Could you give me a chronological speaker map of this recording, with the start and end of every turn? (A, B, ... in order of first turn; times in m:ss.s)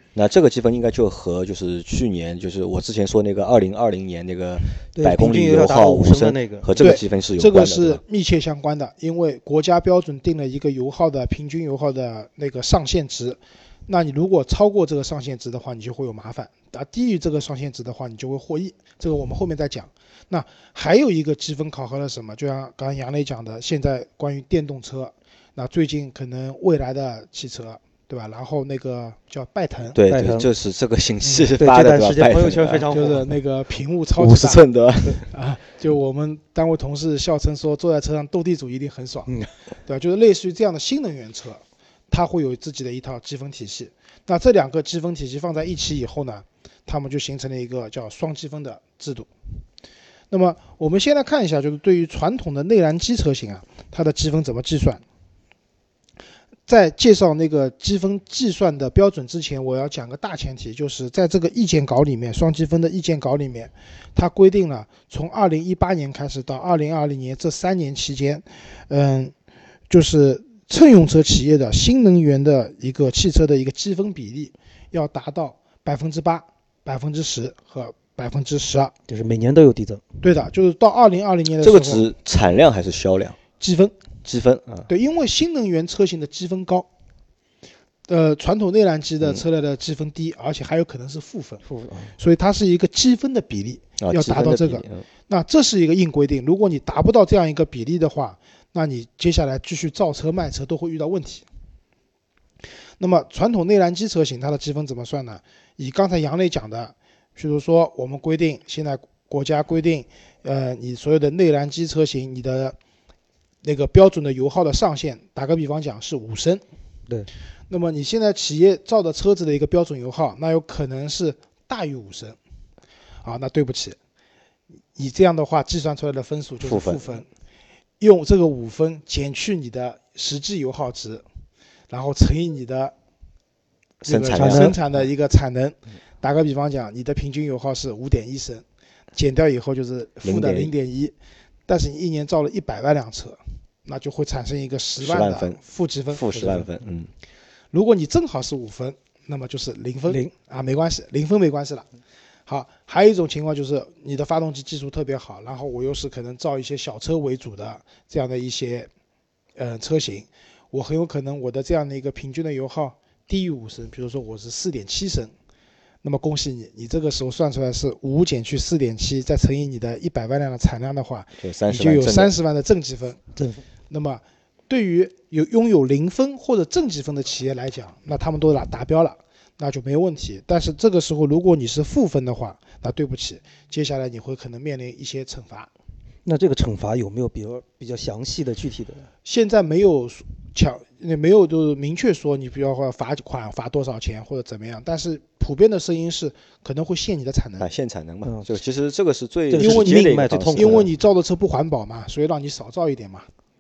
0:00.1-0:08.0 A
0:05.0-0:07.0 B
0:06.8-0:30.0 C
0:29.9-0:32.9 A
0:30.1-0:30.5 B
0:31.6-0:33.3 B
0:32.9-0:34.6 C
0:34.2-0:35.3 A
0:35.3-0:49.3 C
0:50.3-0:55.0 C
0:56.7-1:09.3 C
1:09.9-1:18.9 C
1:19.1-1:20.0 B
1:20.2-1:22.1 C
1:21.6-1:23.4 A
1:23.6-1:23.9 C
1:24.2-1:24.8 A
1:24.9-1:26.9 C
1:28.1-1:31.6 C
1:31.6-1:32.1 B
1:32.2-1:41.4 C
1:34.0-1:35.0 A
1:43.0-1:52.8 C
1:53.6-1:56.6 C
1:57.7-2:02.4 C
2:03.2-2:04.0 C
2:05.0-2:07.3 C
2:06.6-2:07.0 A
2:08.0-2:11.2 C
2:11.9-2:12.9 C
2:14.0-2:21.1 C
2:14.0-2:14.8 A
2:14.3-2:14.8 B
2:20.2-2:20.7 A
2:21.7-2:26.5 C
2:25.0-2:25.6 A
2:26.1-2:27.1 A
2:26.3-2:26.7 B
2:27.7-2:31.8 C
2:32.5-2:38.9 C
2:39.6-2:45.3 C
2:46.0-2:53.2 C
2:51.4-2:52.3 A
2:53.4-2:53.6 B
2:53.9-3:05.7 C
3:06.2-3:09.1 B
3:09.2-3:17.7 C
3:17.6-3:20.9 A
3:19.5-3:20.9 B
3:19.6-3:23.3 C